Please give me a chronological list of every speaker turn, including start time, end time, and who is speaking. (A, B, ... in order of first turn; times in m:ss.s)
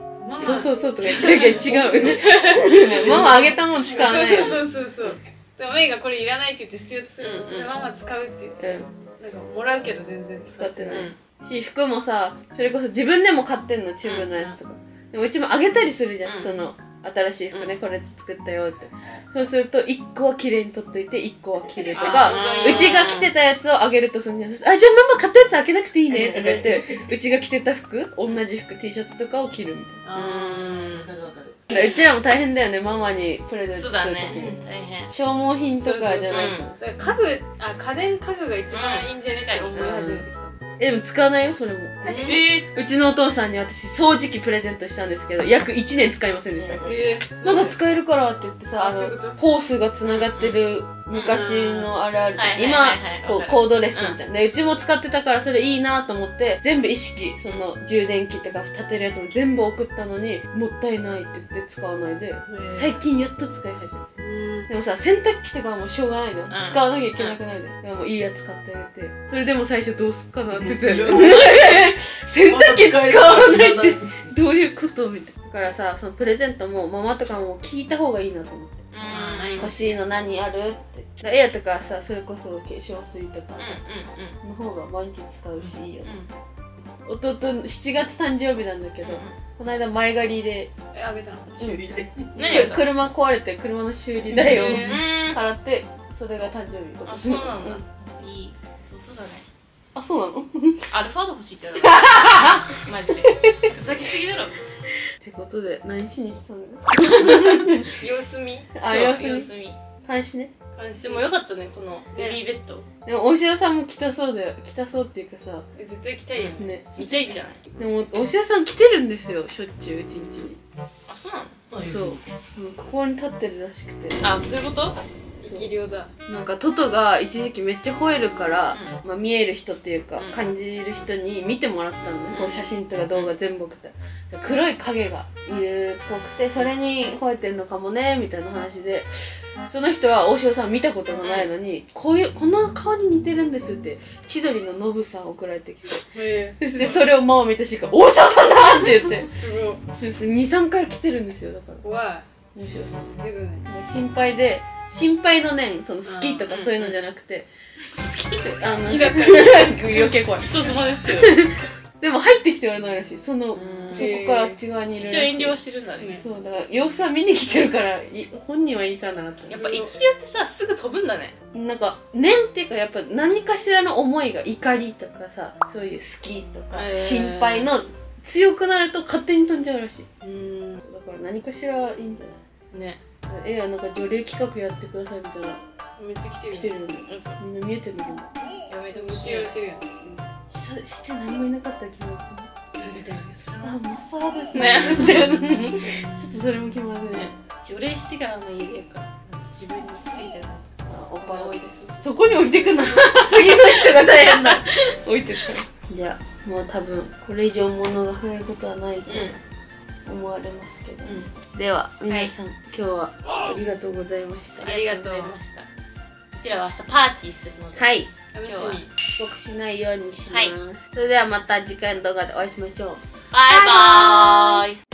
0:00.2-0:08.6 A
0:00.4-0:04.7 B
0:03.7-0:04.5 C
0:07.2-0:07.7 D
0:08.6-0:08.9 B
0:09.2-0:11.1 A
0:10.6-0:30.0 B
0:10.9-0:11.2 D
0:14.0-0:14.4 D
0:16.2-0:16.5 D
0:21.9-0:23.3 D
0:21.9-0:23.2 A
0:26.1-0:27.1 C
0:26.3-0:26.6 A
0:30.0-0:30.8 A
0:30.1-0:31.1 D
0:30.9-0:31.6 C
0:31.7-0:34.6 B
0:33.7-0:35.1 D
0:34.3-0:34.6 C
0:35.1-0:36.7 B
0:35.8-0:40.6 A
0:36.3-0:36.7 D
0:38.7-0:39.8 D
0:39.7-0:40.2 B
0:40.8-1:04.1 B
0:42.0-0:42.7 D
0:46.6-0:46.8 D
0:46.8-0:47.8 A
0:48.8-0:49.4 A
0:50.0-0:50.6 D
0:51.1-0:54.2 D
1:02.4-1:02.9 A
1:04.2-1:04.7 A
1:04.7-1:18.8 B
1:06.5-1:07.4 D
1:10.6-1:11.6 C
1:10.8-1:11.9 D
1:12.4-1:14.3 C
1:18.9-1:19.8 D
1:19.0-1:19.9 A
1:19.6-1:23.8 B
1:23.6-1:24.4 D
1:24.4-1:26.1 B
1:25.7-1:26.3 D
1:27.0-1:30.7 B
1:29.0-1:29.3 D
1:30.9-1:31.6 A
1:31.6-1:32.6 C
1:31.6-1:37.8 B
1:32.3-1:32.9 D
1:32.4-1:32.7 A
1:34.3-1:35.0 A
1:34.8-1:35.4 D
1:37.0-1:39.4 D
1:39.9-1:40.9 B
1:40.9-1:44.6 D
1:41.8-1:43.6 B
1:45.2-1:47.9 B
1:46.9-1:47.7 D
1:48.0-1:48.8 A
1:48.7-1:49.5 B
1:48.8-1:49.8 D
1:50.0-1:50.5 B
1:50.8-1:51.3 A
1:51.0-1:52.9 D
1:52.1-1:52.4 A
1:53.0-1:55.6 B
1:55.7-1:57.1 A
1:56.3-1:57.6 D
1:56.6-2:00.6 B
2:01.1-2:01.6 D
2:01.7-2:02.2 C
2:01.8-2:04.3 B
2:04.2-2:05.0 D
2:05.4-2:06.1 A
2:05.4-2:05.7 B
2:06.3-2:19.1 B
2:10.2-2:10.4 D
2:12.3-2:13.3 D
2:19.7-2:26.0 B
2:21.2-2:21.5 D
2:26.1-2:27.1 A
2:26.6-2:29.3 B
2:29.0-2:29.8 A
2:30.0-2:31.8 B
2:31.8-2:32.2 A
2:32.5-2:33.1 B
2:33.2-2:33.7 A
2:33.6-2:37.5 B
2:36.0-2:36.4 A
2:36.5-2:37.0 D
2:37.9-2:41.4 D
2:38.4-2:45.6 B
2:38.8-2:40.0 A
2:43.6-2:44.1 D
2:43.9-2:44.6 A
2:45.0-2:46.2 D
2:46.2-2:49.6 B
2:49.5-2:51.3 D
2:49.5-2:50.0 A
2:51.5-3:00.1 B
2:56.7-2:57.7 D
3:00.2-3:00.8 D
3:00.8-3:02.4 B
3:02.7-3:03.0 D
3:03.3-3:05.6 B
3:06.0-3:06.7 A
3:06.5-3:08.3 B
3:07.1-3:07.4 D
3:08.7-3:09.6 D
3:08.9-3:09.9 A
3:10.5-3:12.5 B
3:12.8-3:13.3 A
3:12.8-3:13.8 D
3:13.6-3:17.3 B
3:14.5-3:15.8 D
3:17.1-3:22.3 D
3:20.9-3:29.4 B
3:22.9-3:24.6 D
3:29.1-3:29.4 D
3:30.0-3:34.7 B
3:31.0-3:31.3 D
3:34.6-3:35.7 D
3:34.6-3:35.3 A
3:36.3-3:37.8 D
3:37.8-3:38.1 B
3:38.3-3:38.9 A
3:38.4-3:38.8 D
3:39.2-3:43.0 B
3:40.3-3:40.5 D
3:43.3-3:44.8 D
3:43.5-3:44.6 A